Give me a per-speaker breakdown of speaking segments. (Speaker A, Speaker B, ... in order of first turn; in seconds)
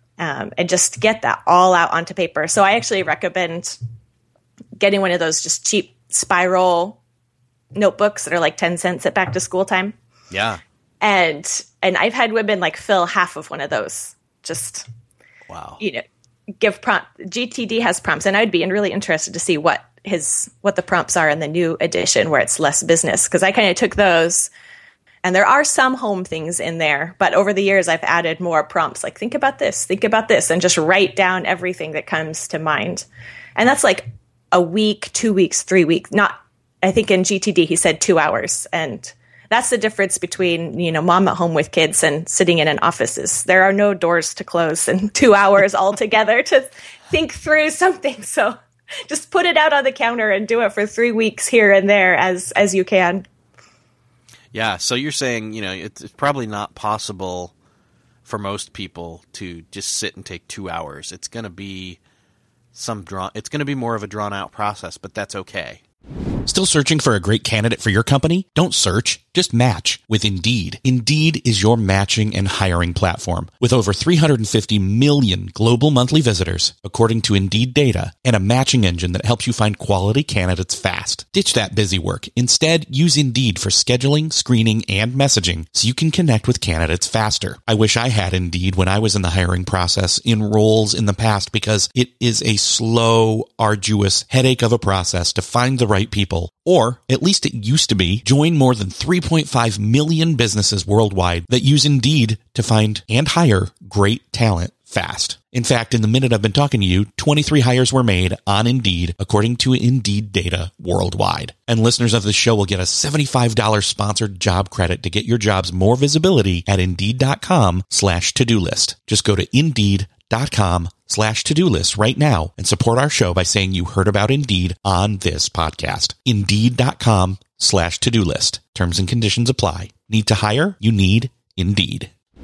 Speaker A: 0.2-3.8, 4.8-7.0, 7.8-9.9, 11.0-14.9, 16.6-24.5, 25.2-33.1, 33.6-48.6, 49.1-53.2
Speaker B: 10.3-10.6, 15.5-15.8, 54.5-57.5, 58.2-62.0, 62.7-65.8
Speaker C: 66.5-132.1